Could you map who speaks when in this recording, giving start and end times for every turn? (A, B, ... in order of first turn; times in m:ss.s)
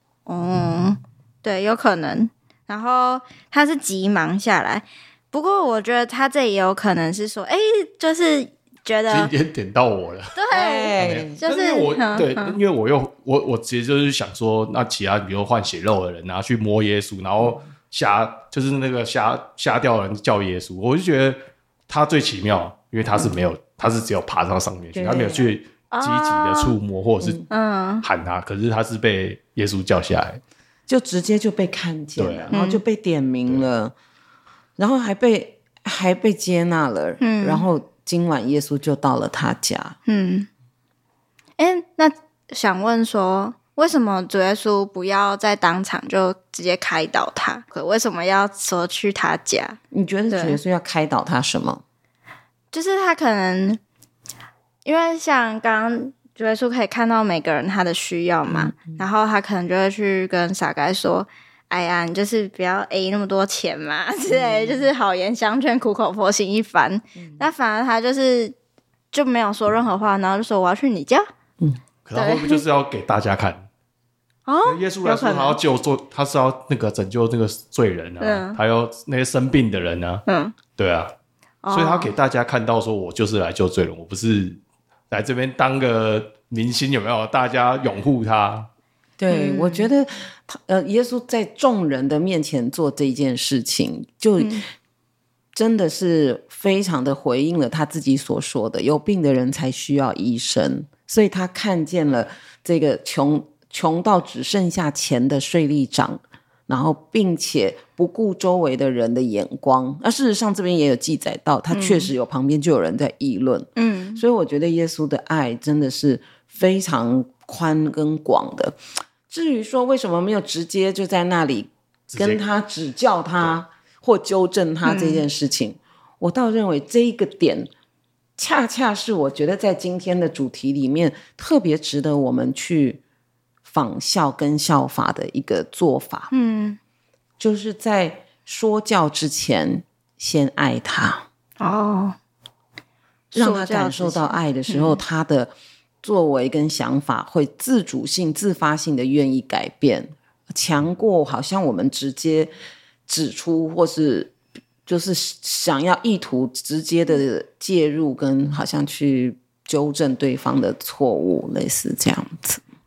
0:00.3-0:09.3 A
0:09.1-0:10.4 B
0:10.4-0:12.6 A
0:10.5-0:11.4 C
0:11.0-0:27.4 B
0:25.0-0:25.5 C
0:25.9-0:26.8 A
0:27.2-0:27.5 C
0:27.5-0:28.0 A
0:28.0-0:30.4 B
0:30.9-0:33.9 C
0:32.2-0:32.5 B
0:32.5-0:32.8 A
0:34.8-0:40.0 C
0:37.2-0:37.7 A
0:40.1-0:40.5 A
0:41.6-0:49.8 A
0:49.9-0:51.8 C
0:50.3-0:50.6 A
0:52.7-0:53.8 A
0:54.8-1:08.6 A
0:58.5-0:59.0 C
1:04.3-1:04.9 C
1:07.2-1:07.5 C
1:09.1-1:11.3 A
1:12.0-1:13.7 B
1:12.2-1:12.6 A
1:14.5-1:15.6 A
1:14.6-1:20.2 B
1:18.2-1:18.6 A
1:20.3-1:20.6 A
1:20.8-1:21.1 B
1:21.6-1:22.1 A
1:21.7-1:24.6 B
1:25.1-1:28.7 B
1:29.2-1:34.6 C
1:29.3-1:29.9 A
1:34.4-1:34.6 A
1:35.5-1:58.8 C
1:51.7-1:52.1 A
1:53.8-1:54.2 A
1:59.3-2:07.7 C
2:02.1-2:02.4 B
2:04.8-2:05.2 A
2:08.4-2:13.0 C
2:13.7-2:16.3 C
2:16.3-2:16.8 A
2:17.4-2:21.3 C
2:21.6-2:22.2 A
2:23.3-2:25.0 A
2:23.4-2:25.5 C
2:26.0-2:32.5 C
2:33.1-2:34.3 C
2:34.9-2:42.6 C